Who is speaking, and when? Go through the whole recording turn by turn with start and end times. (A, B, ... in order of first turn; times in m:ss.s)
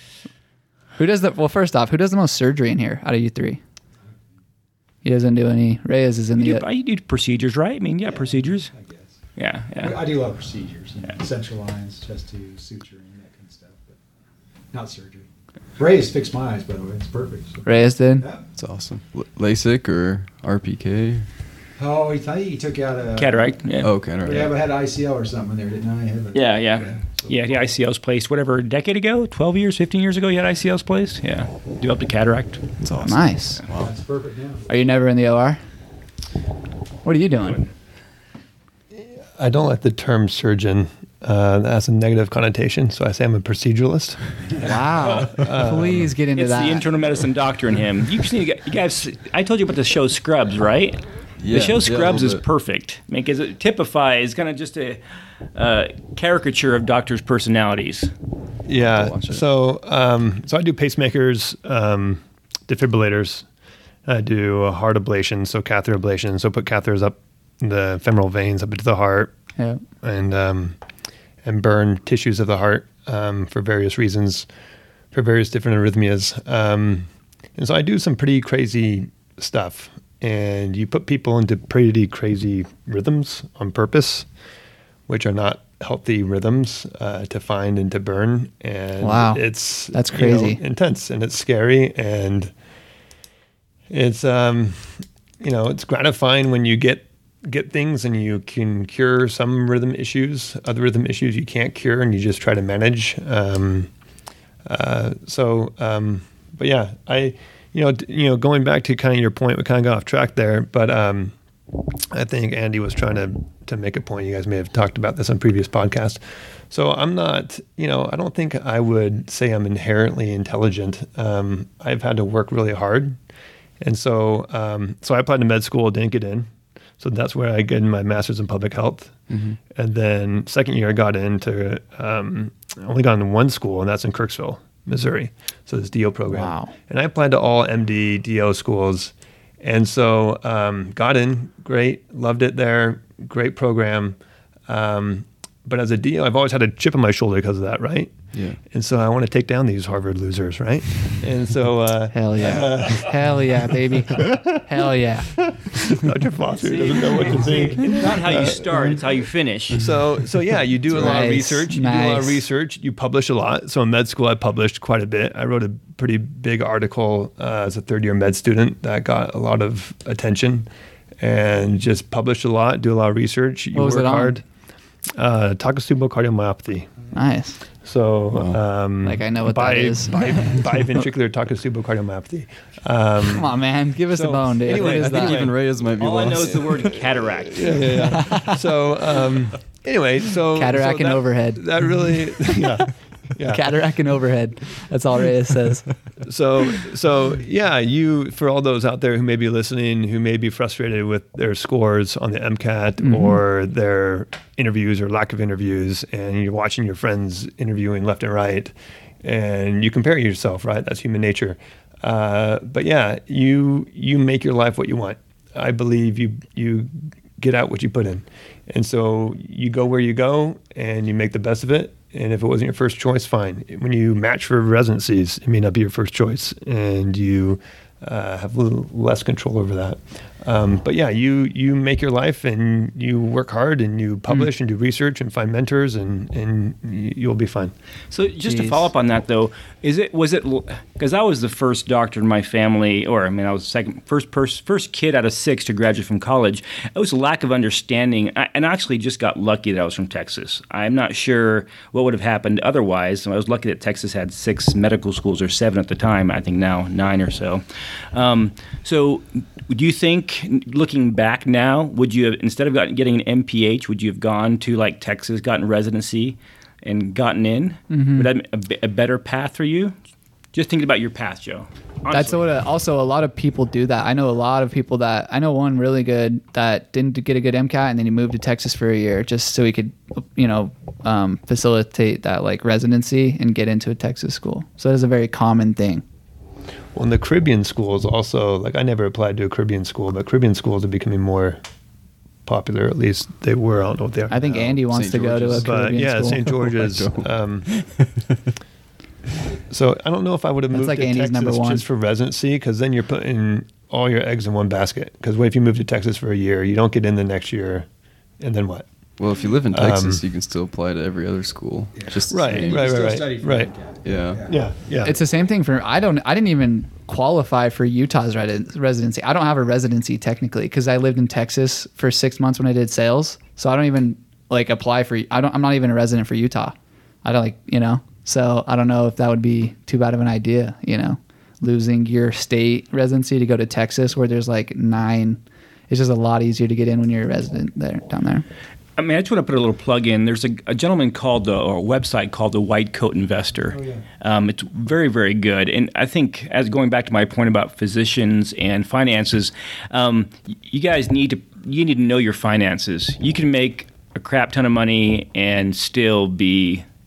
0:01.0-0:03.6 A
0:05.0-0:06.6 A
0:06.4-0:08.7 B
0:08.1-0:09.1 C
0:09.4-0:10.0 B
0:09.8-0:14.0 C
0:14.7-0:17.7 C
0:17.6-0:18.2 A
0:18.6-0:21.3 D
0:21.8-0:23.5 C
0:23.2-0:23.9 B
0:23.8-0:24.5 D
0:24.2-0:27.6 C
0:26.3-0:33.1 B
0:32.8-0:33.9 D
0:33.0-0:33.6 A
0:33.8-0:34.7 C
0:34.7-0:35.6 A
0:37.0-0:37.6 A
0:39.0-0:44.7 E
0:44.6-0:46.9 A
0:45.3-0:46.1 E
0:46.3-0:55.0 B
0:51.4-0:52.4 D
0:55.5-0:58.1 B
0:58.6-1:03.4 E
0:58.9-0:59.4 D
1:04.0-1:09.3 E
1:10.0-1:10.8 E
1:11.4-1:14.5 E
1:15.1-1:24.3 E
1:25.1-1:32.5 E
1:29.0-1:30.6 A
1:33.9-1:43.9 E
1:44.6-1:51.3 E
1:52.1-2:03.2 E
2:03.8-2:24.2 E
2:09.3-2:09.5 D
2:16.3-2:16.7 A
2:24.7-2:33.4 E
2:28.3-2:28.6 D
2:32.1-2:35.3 A
2:34.1-2:34.6 E
2:35.3-2:38.8 E
2:36.5-2:39.9 B
2:39.7-2:50.7 E
2:40.9-2:42.4 A
2:51.2-2:54.4 E
2:53.7-2:54.4 A
2:55.2-2:56.9 E
2:57.1-2:57.6 A
2:57.8-3:03.5 E
2:58.3-2:58.6 D
2:59.0-3:00.6 A
3:03.3-3:05.5 A
3:04.1-3:05.6 E
3:04.7-3:06.9 D
3:06.0-3:08.1 B
3:07.1-3:13.7 E
3:07.9-3:08.6 A
3:10.5-3:11.6 A
3:13.4-3:15.9 A
3:16.2-3:28.7 E
3:23.0-3:23.4 A
3:29.2-3:57.7 E
3:58.1-4:29.9 B
3:58.4-3:58.9 A
4:27.9-4:28.3 A
4:30.5-4:32.4 B
4:32.1-4:46.0 A
4:46.9-4:51.6 E
4:52.4-4:54.4 E
4:54.3-4:56.5 A
4:54.5-4:55.7 D
4:55.5-4:57.7 E
4:56.6-4:58.4 D
4:59.7-5:07.9 E
5:00.7-5:01.8 A
5:08.4-5:08.9 E
5:09.2-5:13.1 D
5:09.7-5:10.2 E
5:12.0-5:14.6 C
5:12.3-5:13.7 E
5:14.0-5:14.4 D
5:14.4-5:15.1 E
5:15.0-5:38.4 A
5:39.0-5:56.8 B
5:43.7-5:44.0 C